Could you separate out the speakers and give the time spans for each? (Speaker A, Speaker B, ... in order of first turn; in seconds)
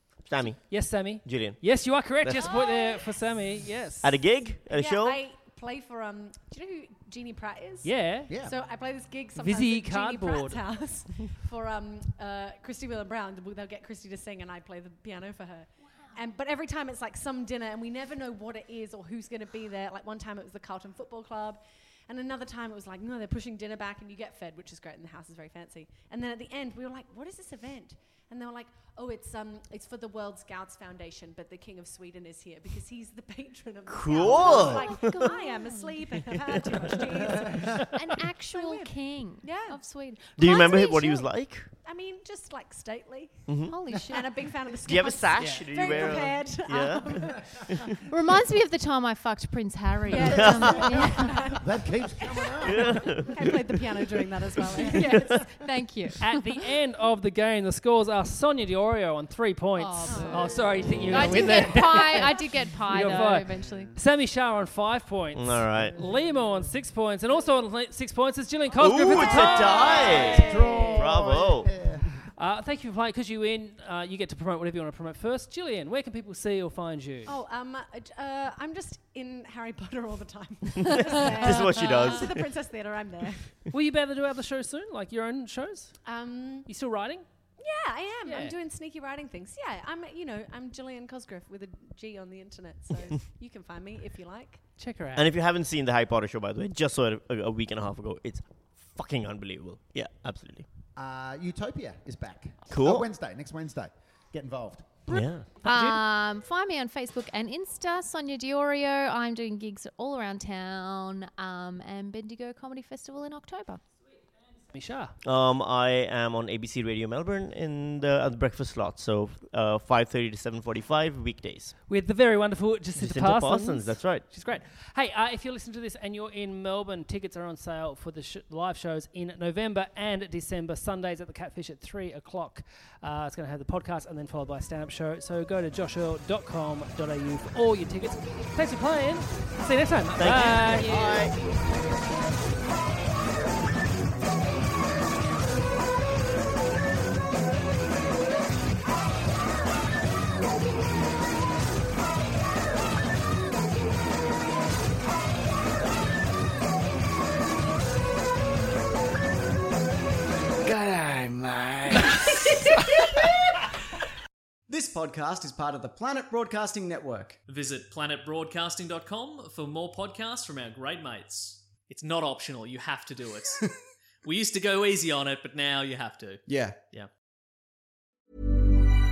Speaker A: 0.3-2.5, 4.0-5.2, 33.9-35.4, 36.2-37.0, 40.4-41.7, 43.5-43.9, 44.8-48.0, 50.2-50.8, 52.6-54.0, 54.5-55.0, 65.3-66.0, 68.8-71.7, 80.8-82.5, 95.2-100.7, 102.7-103.0, 105.1-105.6, 115.2-121.8, 123.0-124.3, 140.2-141.3
Speaker B: 0.6-4.2, 7.8-8.3, 9.4-10.6, 45.4-46.2, 56.2-70.6, 72.3-77.4, 83.7-85.9, 86.7-87.2, 88.2-88.5, 94.8-95.3, 105.1-106.0, 114.7-115.1, 121.9-141.3
Speaker C: 2.4-3.0, 34.1-36.0, 37.9-41.3, 43.7-44.3, 48.1-51.5, 54.8-56.5, 59.8-63.9, 105.6-113.8
Speaker D: 4.7-37.8, 38.5-39.8, 41.8-47.4, 50.1-55.5, 60.0-60.5, 61.4-61.6, 69.7-71.0, 77.2-83.6, 86.0-86.7, 87.6-94.6
Speaker E: 8.3-8.5, 37.4-37.7, 51.5-53.1, 60.9-61.3, 63.5-64.0, 65.8-66.2, 69.7-72.2, 101.0-105.0
Speaker F: 164.7-167.4, 176.5-176.8
Speaker G: 167.5-173.6, 174.2-177.1